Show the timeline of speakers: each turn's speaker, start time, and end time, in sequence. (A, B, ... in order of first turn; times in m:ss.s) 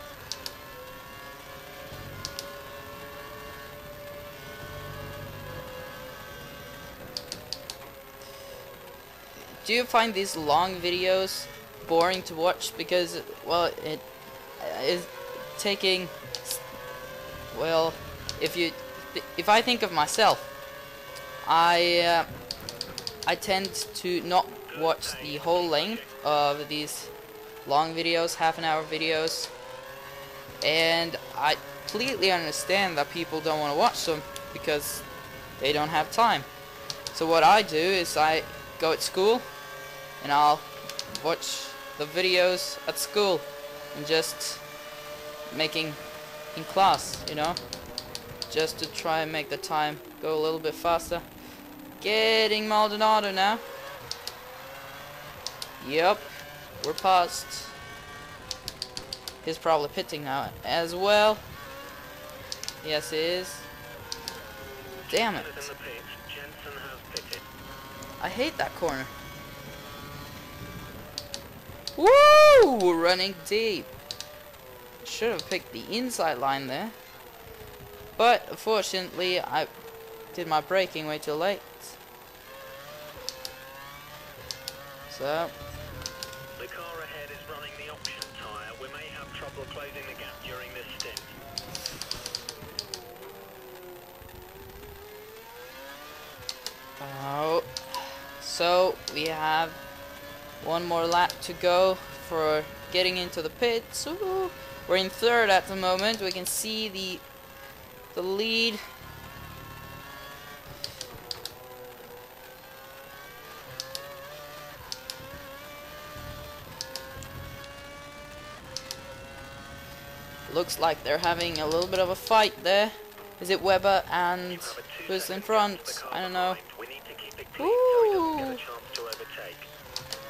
0:09.6-0:14.0 A
0:14.6-0:16.6 A
0:17.5-0:20.5 A
0:21.4-0:22.3 A
0:23.2-0:27.1 A
0:24.7-0:26.1 B
0:27.6-0:29.5 A
0:30.6-0:35.0 A
0:35.6-0:36.5 A
0:37.1-0:39.4 A
0:40.2-0:44.6 A
0:45.5-0:46.0 A
0:46.5-0:47.6 A
0:48.5-0:51.2 A
0:52.0-0:53.6 A
0:55.8-0:56.3 A
0:56.8-0:57.7 A
0:59.4-1:01.4 A
1:02.8-1:03.7 A
1:05.1-1:07.4 B
1:05.1-1:05.7 A
1:08.2-1:09.1 A
1:12.0-1:13.9 A
1:15.0-1:16.9 A
1:18.2-1:19.7 A
1:20.3-1:22.0 A
1:25.1-1:25.5 A
1:26.6-1:31.3 B
1:37.0-1:39.8 A
1:40.6-1:47.2 A
1:48.1-1:48.8 A
2:00.5-2:06.6 A
2:04.4-2:09.7 B
2:07.6-2:08.6 A